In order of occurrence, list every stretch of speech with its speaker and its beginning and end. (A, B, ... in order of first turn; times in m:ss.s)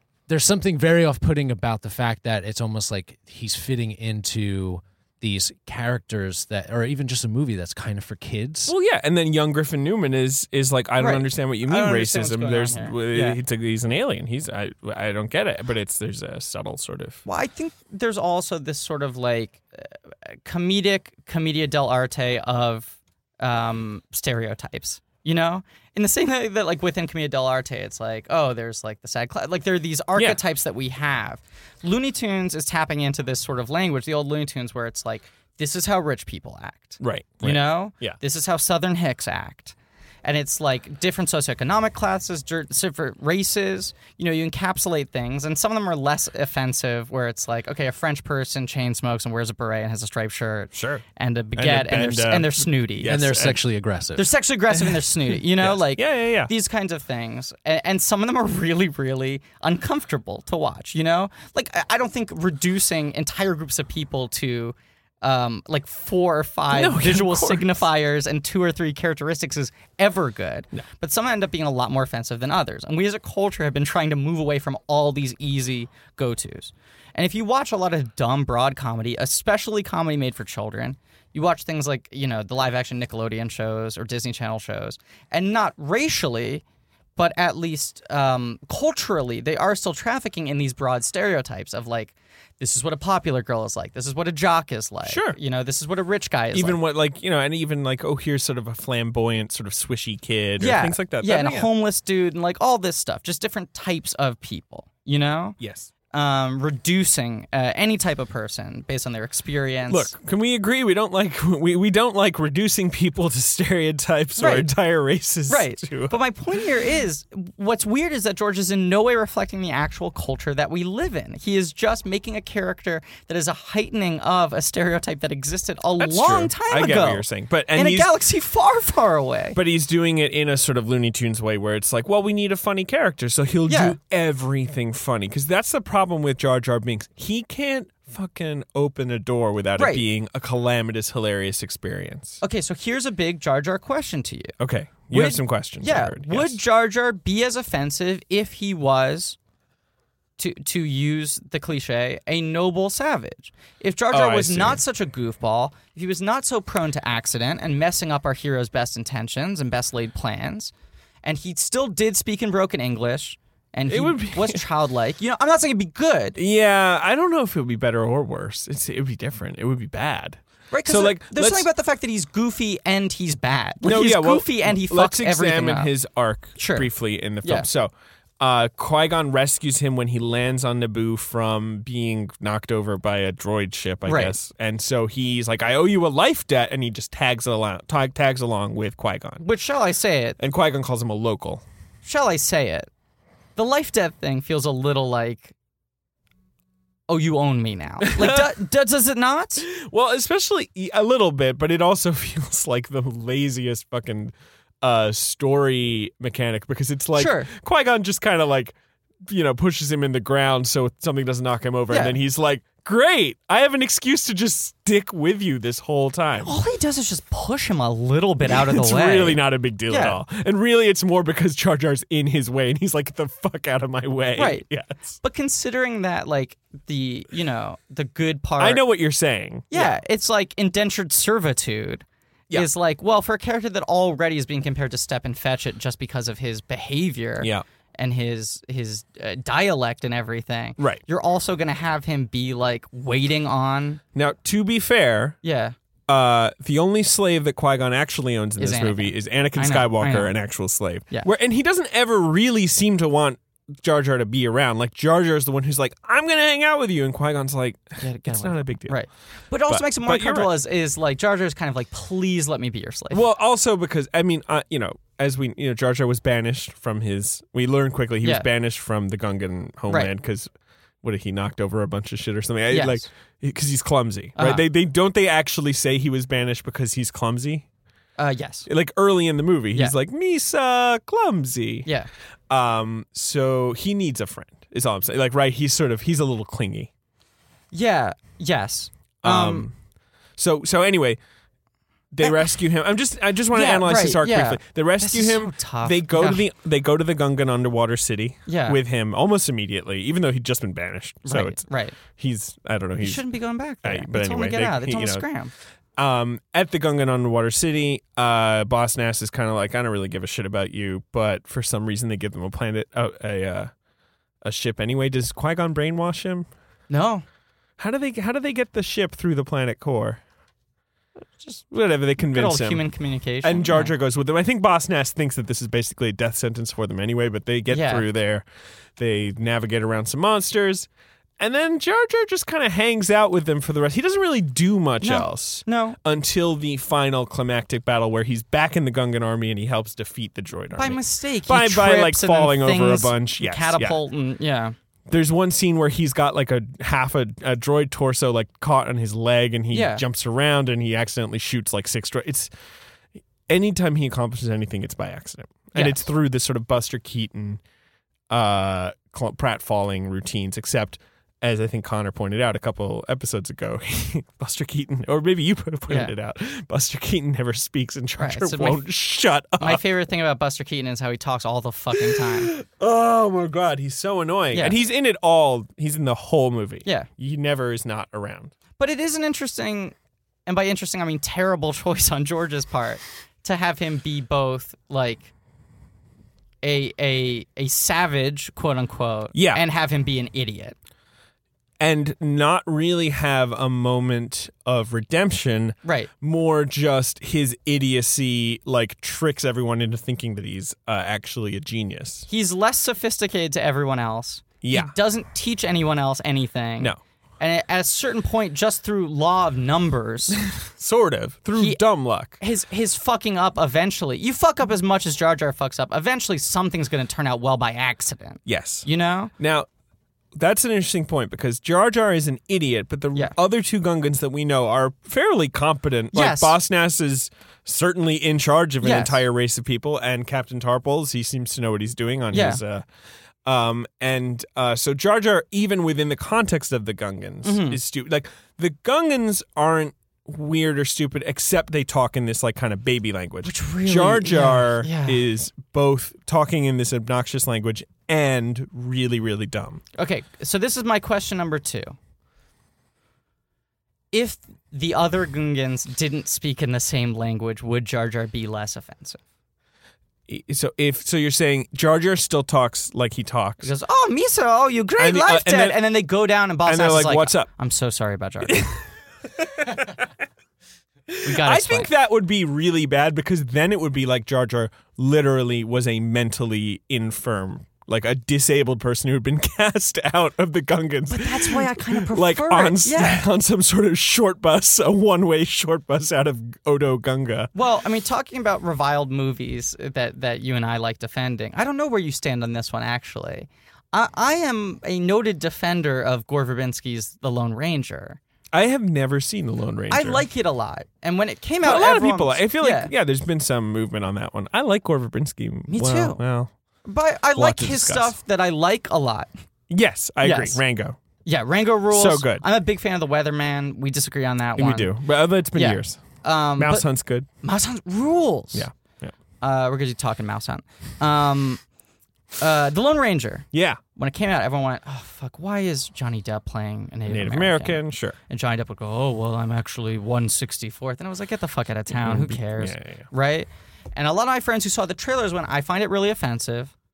0:00.3-0:08.7 A
0:08.7-0:17.2 B
0:11.0-0:13.4 C
0:17.3-0:53.2 C
0:37.0-0:38.2 B
0:50.7-0:51.0 B
0:51.6-0:53.6 B
0:53.0-0:54.3 A
0:54.2-1:26.6 C
0:54.8-0:56.5 B
1:06.7-1:07.9 B
1:27.2-1:36.8 C
1:35.0-1:35.4 B
1:36.5-1:41.7 B
1:40.6-1:45.6 C
1:45.6-1:45.9 B
1:46.1-1:50.1 C
1:49.9-1:56.2 B
1:54.4-1:54.7 C
1:55.5-2:09.6 C
2:06.0-2:08.1 B
2:09.6-2:22.4 B
2:13.7-2:14.0 C
2:19.8-2:20.0 C
2:22.4-2:24.5 C
2:24.6-2:26.6 B
2:25.1-2:29.4 C
2:30.4-2:40.7 C
2:34.1-2:34.8 B
2:41.2-2:46.4 C
2:43.9-2:44.7 B
2:46.4-2:51.7 B
2:50.7-2:55.9 C
2:53.8-3:09.4 B
2:56.6-2:56.9 C
3:04.1-3:04.4 C
3:09.4-3:10.4 C
3:10.4-3:11.6 B
3:12.0-3:12.9 C
3:13.6-3:15.5 C
3:17.1-3:19.7 C
3:18.0-3:18.5 B
3:19.7-3:28.8 B
3:27.2-3:27.5 C
3:29.3-3:36.5 B
3:31.9-3:32.2 C
3:36.4-3:40.2 C
3:38.4-3:45.1 B
3:44.4-3:44.7 C
3:45.2-3:48.8 C
3:48.6-3:50.0 B
3:49.7-4:04.0 C
4:04.2-4:05.4 B
4:05.4-4:05.8 C
4:06.1-4:19.0 B
4:08.6-4:10.3 C
4:18.0-4:23.2 C
4:19.7-4:20.5 B
4:23.1-4:30.5 B
4:31.0-4:37.7 B
4:32.7-4:33.1 C
4:34.4-4:34.6 C
4:38.2-4:38.7 C
4:38.7-4:41.9 B
4:42.5-4:46.9 B
4:47.7-4:49.7 C
4:49.2-4:49.7 B
4:50.4-4:51.2 B
4:52.1-5:03.2 B
4:53.5-4:56.4 C
4:58.5-4:58.8 C
5:01.3-5:02.0 C
5:03.0-5:05.5 C
5:03.8-5:05.2 B
5:06.0-5:13.7 B
5:14.4-5:16.5 B
5:16.9-5:17.3 C
5:17.8-5:20.2 B
5:21.4-5:21.6 C
5:21.7-5:22.8 B
5:22.2-5:23.9 C
5:23.4-5:28.4 B
5:27.7-5:28.0 C
5:29.0-5:30.9 B
5:31.4-5:44.0 B
5:35.0-5:36.0 C
5:40.8-5:44.8 C
5:45.1-5:52.5 B
5:49.7-5:50.0 C
5:53.5-5:57.6 B
5:55.7-5:56.0 C
5:58.3-6:09.8 B
6:08.2-6:08.8 C
6:09.6-6:12.5 C
6:12.0-6:18.5 B
6:18.8-6:20.0 C
6:20.5-6:25.3 C
6:26.6-6:30.8 C
6:29.4-6:29.6 B
6:31.8-6:42.3 B
6:35.8-6:36.1 C
6:42.3-6:50.4 C
6:44.6-6:45.0 B
6:50.3-6:52.4 B
6:51.5-6:51.8 C
6:52.4-6:59.3 C
6:58.5-6:58.9 B
6:59.4-6:59.7 B
7:00.4-7:12.8 B
7:06.1-7:06.6 C
7:08.8-7:09.2 C
7:12.3-7:12.6 C
7:13.5-7:29.8 B
7:17.4-7:17.8 C
7:23.4-7:25.2 C
7:30.0-7:32.0 C
7:34.1-7:39.2 C
7:40.3-7:43.7 B
7:43.6-7:48.7 C
7:45.0-7:45.8 B
7:46.7-7:47.5 B
7:48.5-7:48.8 B
7:49.4-7:50.1 B
7:51.1-8:07.5 B
7:51.2-7:51.9 C
8:01.1-8:03.2 C
8:07.6-8:18.2 C
8:18.5-8:20.2 B
8:19.9-8:22.9 C
8:21.6-8:26.5 B
8:25.7-8:26.2 C
8:26.8-8:29.3 C
8:27.4-8:28.2 B
8:29.7-8:31.0 B
8:30.2-8:30.6 C
8:31.2-8:34.9 C
8:31.9-8:32.4 B
8:34.6-8:37.3 B
8:35.6-8:36.9 C
8:37.4-8:38.7 C
8:38.5-8:39.1 B
8:39.4-8:41.6 C
8:42.4-8:56.7 C
8:43.5-8:43.8 B
8:47.1-8:48.2 B
8:51.9-8:53.1 B